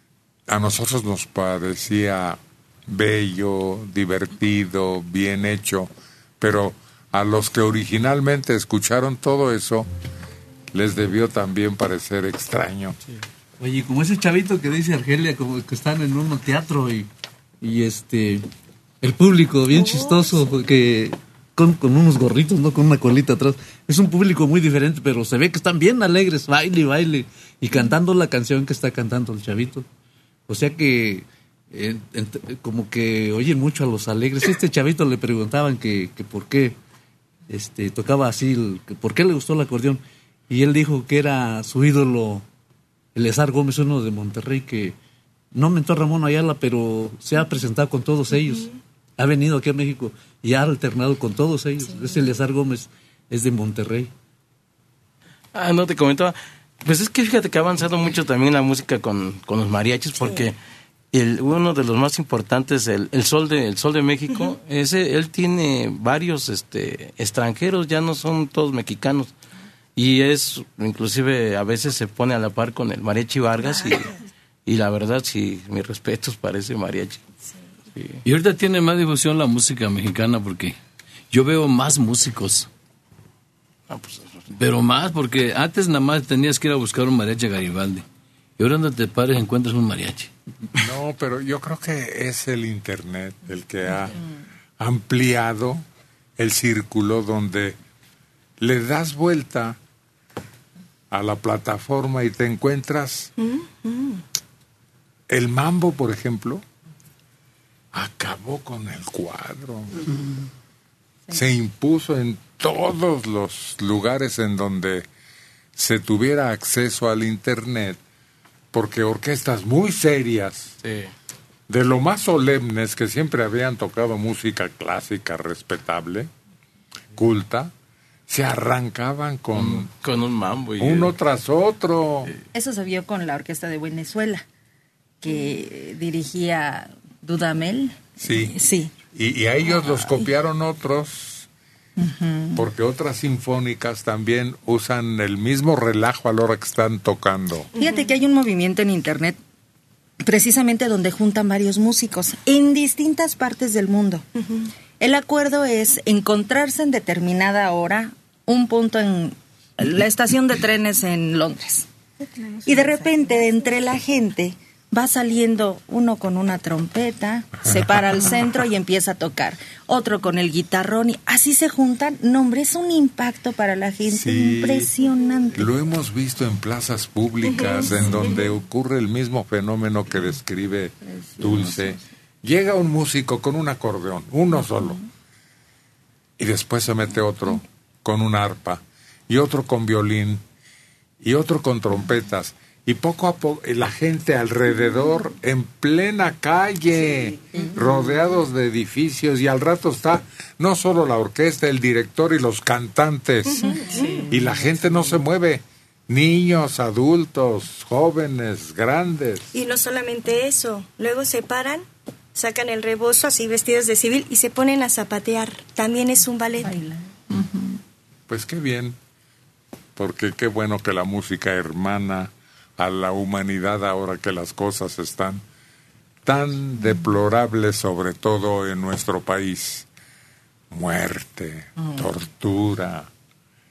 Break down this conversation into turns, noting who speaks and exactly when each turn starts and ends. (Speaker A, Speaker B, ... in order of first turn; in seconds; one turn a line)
Speaker A: 0.5-9.9
Speaker A: 10.7-13.0
Speaker B: 13.6-17.1
Speaker B: 17.6-18.5
Speaker B: 19.0-29.9
Speaker B: 30.5-36.8
Speaker B: 37.5-42.5
Speaker B: 43.1-45.0
Speaker B: 45.5-54.1
Speaker C: 55.5-60.6
Speaker C: 61.1-69.3
Speaker C: 70.0-74.1
Speaker C: 74.7-77.2
Speaker C: 78.0-78.2
Speaker D: 78.2-80.8
Speaker D: 81.3-82.7
Speaker C: 83.9-84.3
Speaker D: 84.6-88.0
Speaker D: 88.6-90.3
Speaker A: 90.8-94.2
Speaker A: 94.8-95.8
Speaker A: 96.4-97.8
Speaker A: 98.6-99.8
Speaker A: 101.1-103.3
Speaker E: 103.4-104.2
Speaker A: 105.3-106.6
Speaker A: 107.9-109.9
Speaker A: 111.3-115.1
Speaker A: 115.8-118.0
Speaker A: 118.7-120.8
Speaker C: 120.8-121.1
Speaker A: 121.7-126.3
Speaker A: 127.2-127.7
Speaker A: 128.3-129.9
Speaker C: 129.5-131.1
Speaker A: 130.8-132.3
Speaker F: 132.5-134.4
Speaker F: 135.2-138.9
Speaker A: 138.2-138.6
Speaker A: 139.1-141.5
Speaker F: 142.0-142.7
Speaker A: 142.6-147.7
Speaker F: 147.8-149.4
Speaker F: 150.2-154.3
Speaker F: 155.0-161.9
Speaker F: 162.7-175.7
Speaker A: 174.1-174.9
Speaker A: 175.6-185.0
Speaker A: 186.4-190.4
Speaker A: 191.2-203.6
Speaker E: 203.9-204.2
Speaker A: 204.3-209.5
Speaker E: 209.5-216.7
Speaker F: 216.6-217.5
Speaker A: 218.3-219.0
Speaker A: 220.0-225.4
Speaker A: 226.2-229.9
Speaker A: 230.7-233.1